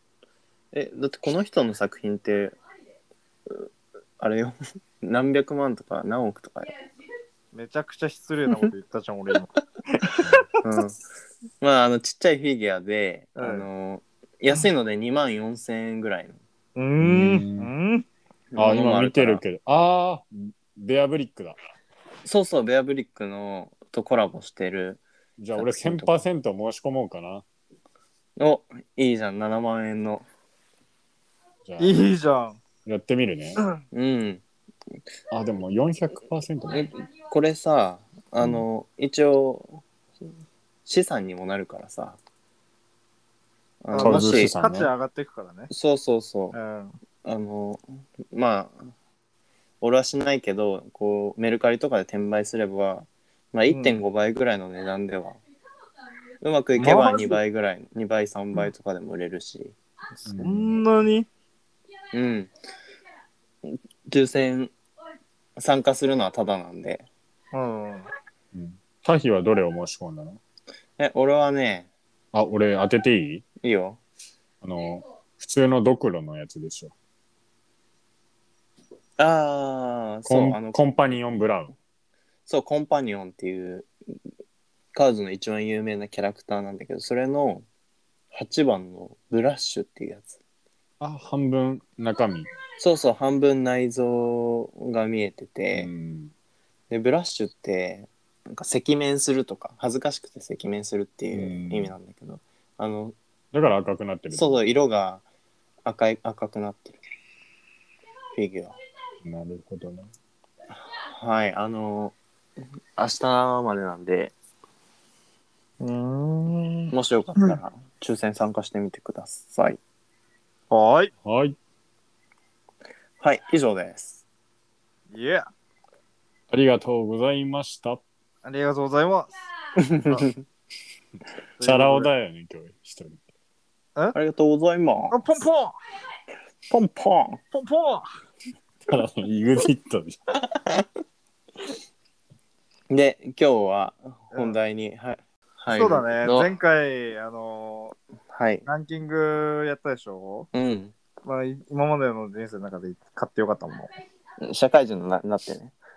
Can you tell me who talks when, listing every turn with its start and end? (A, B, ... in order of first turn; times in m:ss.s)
0:00.7-0:02.5 A
0:04.2-0:06.7 A
0:07.5-0:10.1 B
0:10.6-0:11.0 A
0:11.6-0:16.4 A
0:13.4-0:13.6 B
0:16.8-0:18.0 B
0:17.0-0:17.7 C
0:18.5-0:19.4 A
0:18.6-0:21.6 C
0:22.2-0:25.0 A
0:25.4-0:27.4 C
0:25.6-0:26.2 A
0:28.4-0:30.3 A
0:31.6-0:32.0 C
0:31.8-0:32.6 B
0:32.8-0:33.6 C
0:33.9-0:34.4 A
0:35.3-0:36.9 C
0:36.7-0:39.8 A
0:40.9-0:42.2 A
0:43.8-0:44.5 A
0:43.9-0:45.7 B
0:44.0-0:44.9 C
0:45.7-0:46.6 A
0:46.5-0:46.9 B
0:47.2-0:48.8 A
0:49.8-0:55.4 A
0:53.7-0:54.0 B
0:56.4-0:59.8 A
0:56.8-0:57.4 B
1:00.3-1:00.8 C
1:00.4-1:01.3 B
1:02.1-1:02.5 A
1:03.6-1:04.7 A
1:05.6-1:07.1 A
1:07.5-1:08.1 B
1:08.5-1:10.4 C
1:11.0-1:11.9 A
1:12.3-1:13.4 C
1:13.6-1:14.0 A
1:14.6-1:16.9 C
1:19.2-1:20.9 A
1:20.3-1:21.7 C
1:22.5-1:23.9 A
1:24.9-1:27.6 A
1:28.3-1:30.4 A
1:31.0-1:32.5 C
1:32.8-1:35.9 A
1:35.7-1:36.3 C
1:36.9-1:43.1 A
1:41.3-1:41.9 C
1:43.5-1:44.6 C
1:44.3-1:45.2 A
1:45.8-1:47.0 A
1:48.3-1:48.8 A
1:49.2-1:50.1 C
1:50.9-1:52.2 A
1:53.0-1:54.3 A
1:55.8-1:56.9 B
1:56.9-1:59.8 A
2:00.7-2:01.1 B
2:01.2-2:01.6 C
2:03.2-2:04.2 A
2:05.1-2:05.5 B
2:06.5-2:08.0 C
2:08.4-2:09.3 B
2:09.8-2:10.4 A
2:11.6-2:12.1 B
2:11.6-2:13.2 C
2:14.1-2:15.2 A
2:15.1-2:15.8 B
2:16.7-2:17.4 A
2:17.5-2:18.1 B
2:18.9-2:20.2 C
2:22.9-2:26.5 A
2:24.3-2:24.6 B
2:25.7-2:28.0 B
2:28.3-2:28.6 A
2:28.6-2:30.5 B
2:30.5-2:30.9 A
2:31.2-2:33.9 B
2:34.4-2:35.7 A